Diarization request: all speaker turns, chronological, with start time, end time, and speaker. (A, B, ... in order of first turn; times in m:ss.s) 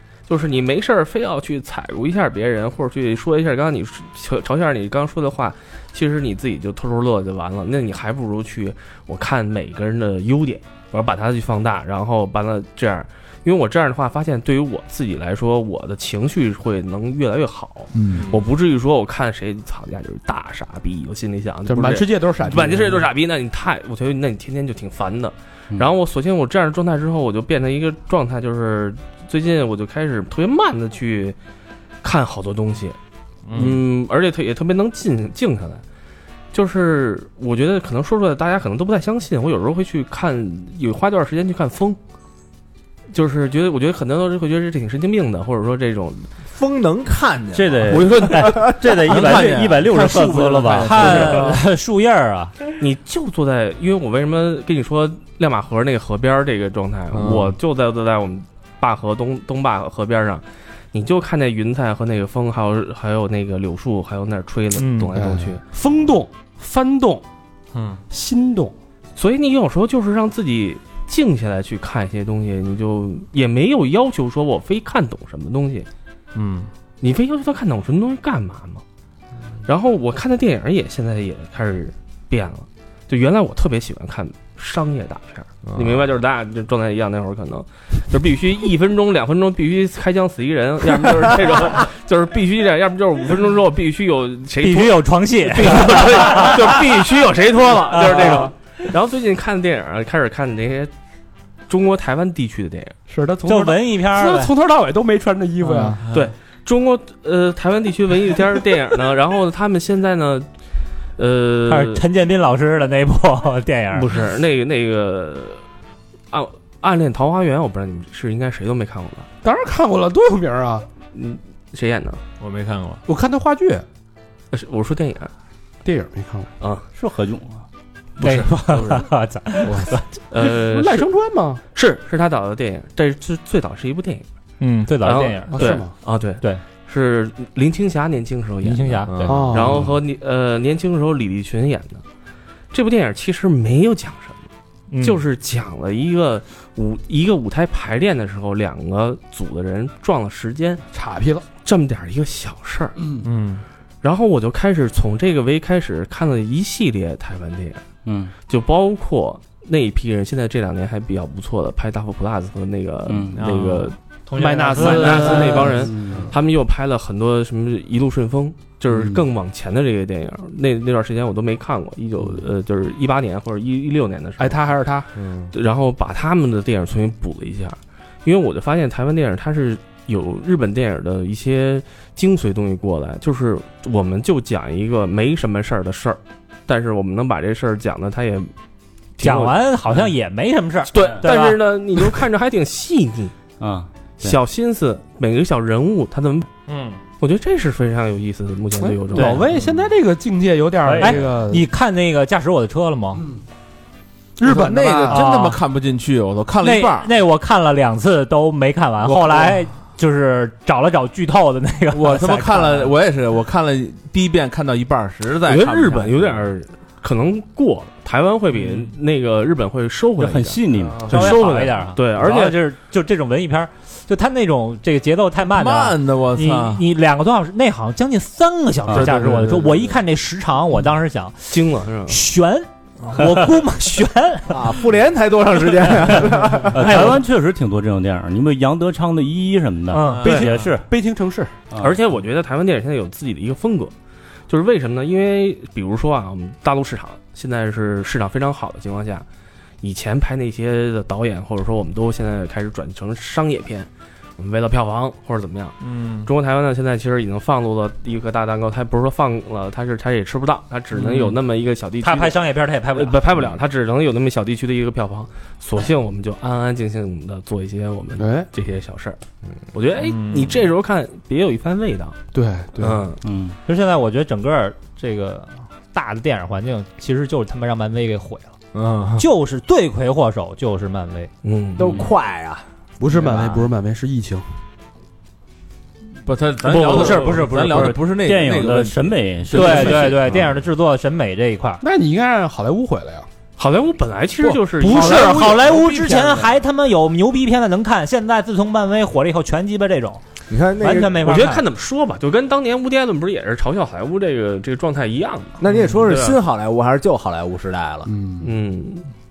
0:00.3-0:31.4 A
0:17.9-0:18.3 B
0:21.7-0:23.0 B
0:32.0-0:33.0 A
0:33.5-0:33.8 C
0:33.5-0:35.8 A
0:36.5-0:42.0 A
0:43.1-0:46.3 A
0:46.5-0:49.0 D
0:47.5-0:51.5 E
0:47.8-0:51.6 F
0:50.8-0:52.5 G
0:52.8-1:05.6 A
1:04.8-1:05.1 G
1:05.1-1:07.2 B
1:07.7-1:08.0 C
1:08.1-1:08.7 B
1:09.2-1:15.9 A
1:16.3-1:16.7 C
1:17.0-1:18.8 A
1:19.6-1:40.9 A
1:25.7-1:26.0 D
1:34.6-1:36.7 G
1:37.9-1:38.5 G
1:41.7-1:43.0 A
1:43.1-1:46.0 B
1:43.5-1:44.5 G
1:45.6-1:46.0 G
1:46.1-1:50.5 A
1:51.2-1:52.0 A
1:51.7-1:54.1 G
1:53.9-1:55.6 A
1:56.3-1:59.3 A
1:59.4-2:00.8 B
2:01.1-2:02.2 A
2:02.4-2:03.0 C
2:03.0-2:03.8 B
2:04.5-2:05.3 A
2:05.8-2:06.5 B
2:06.9-2:07.6 E
2:08.2-2:10.0 G
2:08.2-2:09.0 A
2:10.3-2:11.1 A
2:10.4-2:11.6 B
2:11.7-2:14.2 A
2:14.6-2:15.8 G
2:15.0-2:22.0 A
2:15.5-2:15.9 B
2:18.6-2:19.5 G
2:19.1-2:19.6 D
2:19.3-2:19.8 B
2:22.7-2:24.4 A
2:24.9-2:25.2 G
2:25.0-2:30.8 A
2:30.9-2:31.4 B
2:31.6-2:33.0 A
2:33.2-2:33.6 C
2:34.0-2:37.8 A
2:38.0-2:38.3 E
2:38.5-2:44.0 A
2:43.0-2:43.4 E
2:43.3-2:43.9 C
2:44.3-2:45.8 G
2:44.4-2:46.3 B
2:44.7-2:54.6 A
2:54.4-2:55.1 B
2:55.2-2:55.5 D
2:55.5-3:08.5 A
3:09.2-3:10.1 A
3:09.2-3:11.6 G
3:10.9-3:13.3 A
3:11.0-3:11.2 E
3:13.6-3:14.4 E
3:14.2-3:16.5 A
3:16.7-3:17.0 C
3:17.2-3:19.4 A
3:18.8-3:21.6 B
3:19.2-3:19.4 E
3:20.8-3:21.2 E
3:21.0-3:23.2 G
3:24.4-3:25.6 B
3:24.4-3:27.1 F
3:25.1-3:25.5 G
3:26.6-3:32.9 G
3:31.9-3:36.4 F
3:35.4-3:42.6 A
3:40.2-3:41.8 E
3:41.1-3:54.7 G
3:45.5-3:46.8 F
3:48.9-3:49.2 E
3:49.0-3:49.9 F
3:51.5-3:52.2 A
3:54.5-3:56.9 D
3:56.7-4:00.8 E
3:56.8-3:57.2 G
3:59.9-4:00.3 G
4:00.1-4:00.5 C
4:00.2-4:01.5 B
4:01.7-4:02.0 E
4:01.8-4:03.9 A
4:04.5-4:09.2 A
4:09.8-4:29.2 A
4:15.8-4:16.3 C
4:22.0-4:23.2 G
4:28.2-4:28.5 B
4:29.7-4:32.2 A
4:30.0-4:30.7 C
4:32.3-4:33.1 B
4:32.8-4:33.2 A
4:33.2-4:33.6 E
4:33.6-4:38.5 G
4:38.7-4:39.2 D
4:39.2-4:41.3 G
4:41.4-4:42.1 A
4:41.8-4:42.6 D
4:41.8-4:42.1 E
4:43.0-4:44.4 B
4:46.2-4:50.4 F
4:46.6-4:47.9 A
4:46.9-4:47.6 G
4:47.8-4:50.2 E
4:49.5-4:51.8 G
4:51.8-4:53.3 B
4:53.6-4:56.5 A
4:54.8-5:00.2 G
4:54.9-4:55.4 B
5:00.5-5:01.4 D
5:00.8-5:01.6 G
5:01.2-5:06.4 A
5:05.6-5:08.1 D
5:08.1-5:08.5 B
5:08.4-5:09.1 A